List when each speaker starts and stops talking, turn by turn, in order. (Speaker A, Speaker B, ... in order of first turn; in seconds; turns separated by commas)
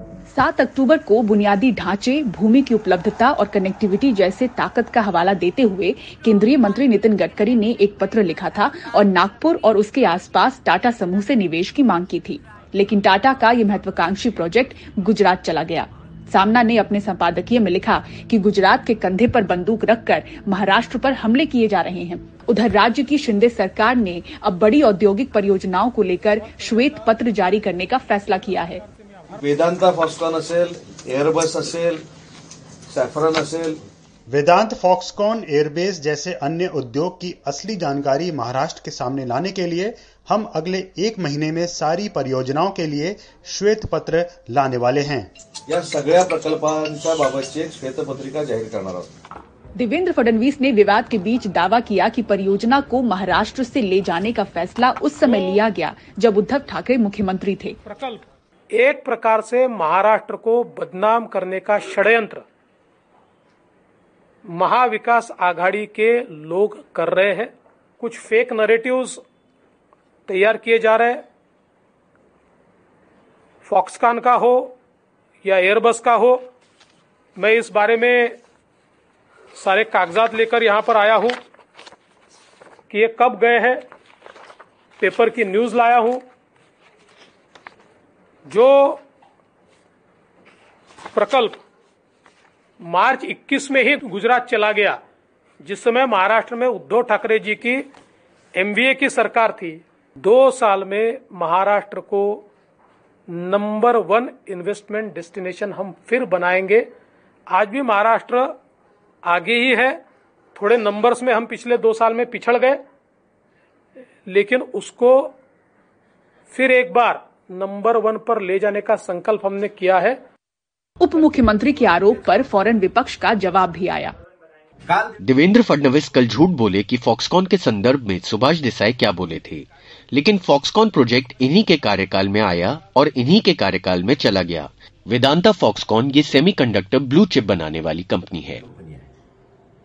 Speaker A: 0.3-28.8, Speaker B: 29.4-32.0, Speaker B: 32.9-33.8, Speaker C: 34.3-45.3, Speaker B: 45.7-49.1, Speaker A: 49.8-57.8, Speaker D: 57.8-58.2, Speaker D: 58.7-62.4, Speaker D: 64.5-69.2, Speaker D: 70.3-71.2, Speaker D: 73.6-74.7, Speaker D: 75.4-76.5, Speaker D: 77.3-78.4, Speaker D: 79.6-81.4, Speaker D: 82.9-83.8, Speaker D: 85.0-86.2, Speaker D: 88.5-89.0, Speaker D: 91.1-91.6, Speaker D: 92.8-95.0, Speaker D: 95.6-97.9, Speaker D: 98.5-102.5, Speaker D: 103.3-106.9, Speaker D: 107.5-108.6, Speaker D: 109.2-110.0, Speaker D: 110.5-112.8, Speaker D: 114.3-115.3, Speaker D: 116.5-120.2, Speaker A: 121.0-124.1, Speaker E: 125.2-138.6